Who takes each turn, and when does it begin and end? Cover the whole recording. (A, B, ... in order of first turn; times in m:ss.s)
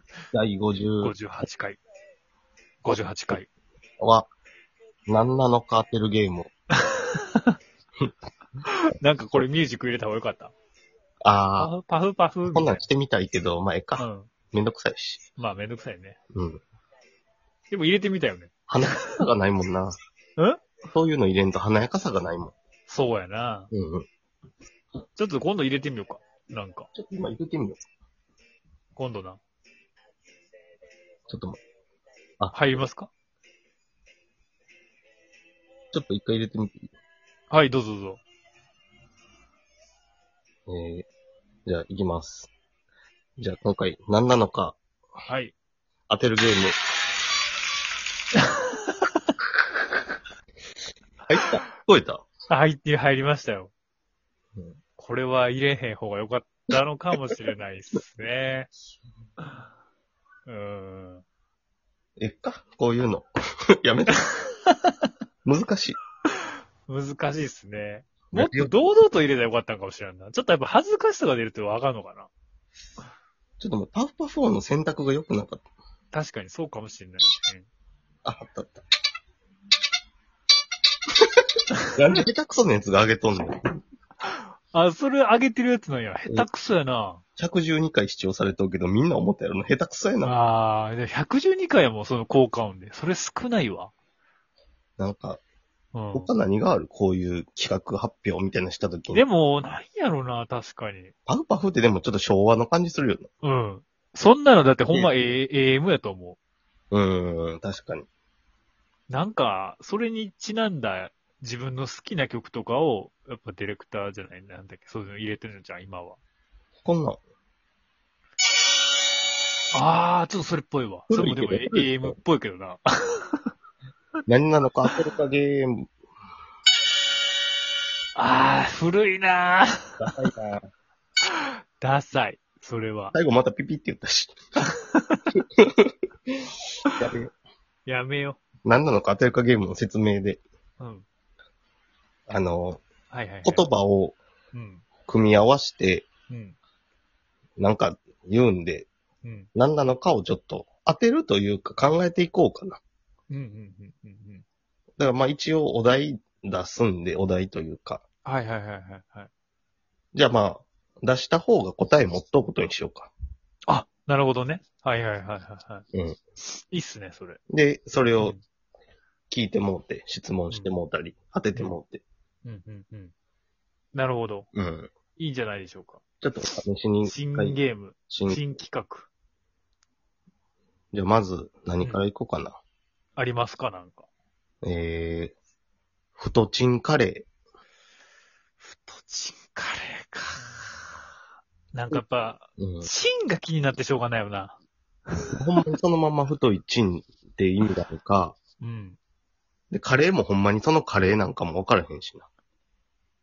0:00.3-0:01.1 A
0:01.0-0:01.8 B
0:02.8-0:03.5 B
0:04.0-0:04.3 A
0:05.1-0:06.5 A
0:06.9-0:07.5 B
0:08.8-0:10.5 B
0:11.2-0:11.7 A
0:11.6-0:12.8 B
0:12.5-0:15.2 A
0:14.0-0:14.3 B
0:15.4-0:16.2 B
0:16.3-0:16.6 A
0:17.7-0:19.2 B
0:18.7-0:19.9 A
0:20.4-0:20.6 B
0:20.9-0:22.5 A
0:22.9-0:23.7 B
0:23.7-0:24.1 A
0:25.2-0:26.9 B
0:27.0-0:27.8 A
0:29.0-0:29.4 B
0:31.3-0:31.6 A
0:32.5-0:33.1 B
0:35.9-0:36.8 A
0:37.5-0:38.2 B
0:40.7-0:41.1 A
0:41.7-0:42.5 A
0:43.4-0:44.8 A
0:45.3-0:45.6 B
0:46.1-0:46.8 A
0:51.3-0:52.2 A
0:52.5-0:53.7 B
0:55.0-0:58.7 B
1:00.5-1:01.2 B
1:02.2-1:03.3 A
1:03.8-1:04.2 A
1:04.7-1:04.9 B
1:05.4-1:06.0 A
1:06.9-1:12.3 B
1:08.3-1:09.0 A
1:13.6-1:15.6 A
1:16.1-1:17.7 B
1:18.2-1:18.8 A
1:21.9-1:23.6 A
1:24.3-1:27.2 B
1:27.4-1:30.4 A
1:30.2-1:33.9 B
1:35.0-1:35.4 A
1:35.9-1:36.3 B
1:36.1-1:39.2 A
1:39.1-1:41.1 B
1:41.3-1:43.3 A
1:43.4-1:46.4 B
1:46.9-1:48.1 A
1:49.1-1:56.2 B
1:56.8-1:57.2 A
1:59.7-2:03.4 B
2:01.1-2:02.1 A
2:04.3-2:05.9 A
2:08.2-2:10.1 B
2:10.0-2:10.6 A
2:11.3-2:13.2 B
2:13.1-2:14.4 A
2:14.7-2:15.3 B
2:15.6-2:16.4 A
2:17.0-2:17.3 A
2:17.9-2:18.4 B
2:18.6-2:20.4 A
2:20.8-2:21.0 B
2:22.3-2:22.8 A
2:23.1-2:23.6 B
2:23.4-2:24.2 A
2:24.5-2:24.8 B
2:25.1-2:26.1 A
2:26.3-2:26.6 B
2:27.6-2:28.9 A
2:29.2-2:29.5 B
2:29.6-2:32.8 A
2:33.3-2:34.4 B
2:35.0-2:38.0 A
2:38.2-2:39.3 B
2:40.1-2:43.1 A
2:43.7-2:45.8 B
2:46.4-2:47.4 B
2:47.5-2:48.4 A
2:48.1-2:48.4 B
2:49.3-2:52.0 A
2:52.4-2:53.1 B
2:53.9-2:54.5 B
2:54.5-2:54.9 A
2:55.2-2:56.0 B
2:56.2-2:57.6 A
2:57.0-2:59.1 B
2:58.1-2:58.4 A
3:00.9-3:02.6 A
3:03.2-3:04.1 B
3:04.6-3:05.4 A
3:06.2-3:07.3 A
3:08.6-3:10.8 B
3:11.7-3:14.6 B
3:12.6-3:12.9 A
3:15.4-3:18.4 A
3:18.6-3:19.0 B
3:19.7-3:22.3 A